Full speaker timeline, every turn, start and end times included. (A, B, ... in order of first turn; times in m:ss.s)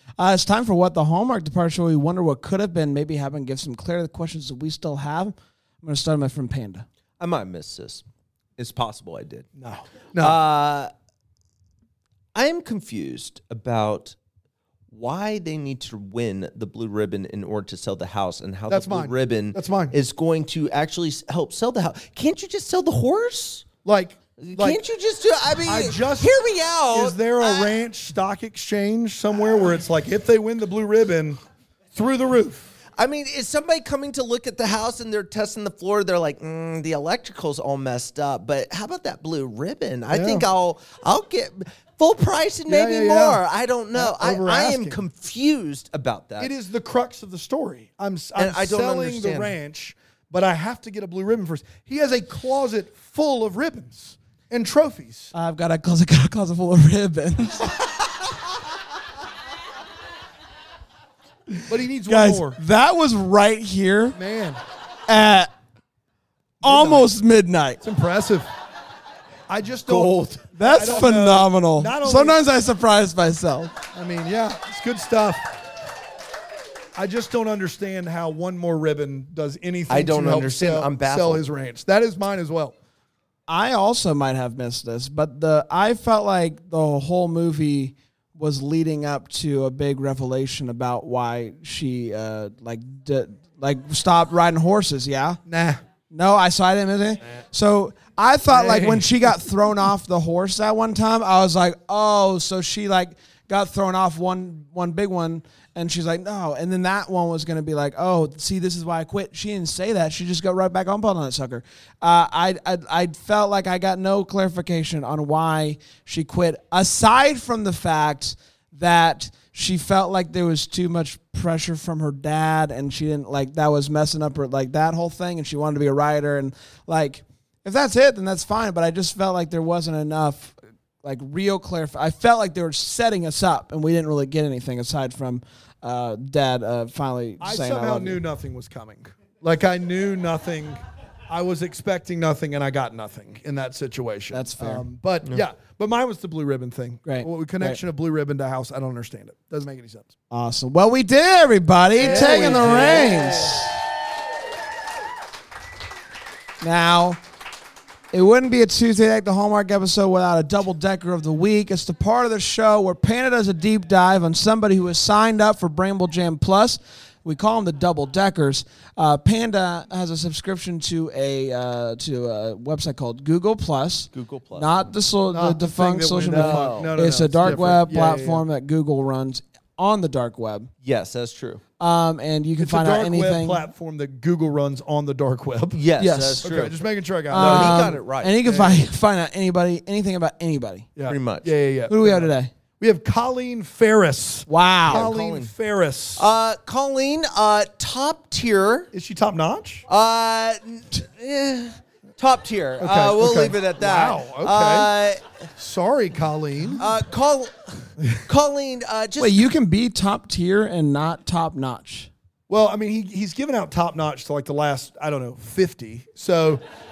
0:00.2-0:06.8 A
0:07.2-0:08.0 B
0:08.6-0:09.5 B
0:09.6-0:10.4 C
0:10.2-0:10.9 B
0:12.3-0:14.2 B
0:14.9-0:23.6 B
0:18.7-0:19.9 C
0:23.8-0:24.8 C
0:24.4-0:27.7 B
0:25.6-0:31.4 C
0:31.9-0:32.7 C
0:33.0-0:46.5 B
0:40.1-0:40.4 C
0:42.7-0:43.4 C
0:43.9-0:45.0 C
0:46.4-0:55.3 C
0:48.4-0:49.5 B
0:55.3-0:57.7 A
1:01.6-1:02.6 C
1:02.1-1:04.2 A
1:04.1-1:04.6 C
1:05.1-1:05.5 A
1:06.6-1:07.1 C
1:06.6-1:07.8 A
1:07.8-1:08.5 C
1:09.5-1:12.4 C
1:09.8-1:10.4 B
1:10.6-1:13.7 A
1:13.9-1:15.5 C
1:17.0-1:22.7 C
1:19.9-1:21.4 B
1:23.5-1:35.4 A
1:35.5-1:35.8 C
1:36.1-2:18.2 A
1:38.5-1:39.3 C
2:17.4-2:30.1 C
2:24.3-2:24.8 A
2:27.0-2:27.8 A
2:30.3-2:33.8 A
2:32.0-2:33.4 C
2:32.0-2:33.5 B
2:36.6-2:37.2 A
2:38.1-3:00.7 A
2:54.1-2:54.7 B
2:55.3-2:58.4 C
2:56.2-2:56.9 B
3:00.8-3:01.6 B
3:01.8-3:03.6 A
3:02.6-3:05.8 C
3:05.7-3:06.8 B
3:06.0-3:06.4 A
3:06.4-3:08.8 C
3:07.3-3:08.3 B
3:07.3-3:10.9 A
3:11.0-3:16.3 C
3:11.1-3:11.5 B
3:11.9-3:12.5 A
3:14.5-3:15.1 A
3:14.9-3:15.5 B
3:16.2-3:18.9 B
3:18.9-3:19.8 C
3:19.9-3:25.2 B
3:22.8-3:24.9 C
3:25.6-3:26.8 C
3:26.8-3:29.4 B
3:29.2-3:32.1 A
3:32.5-3:36.6 C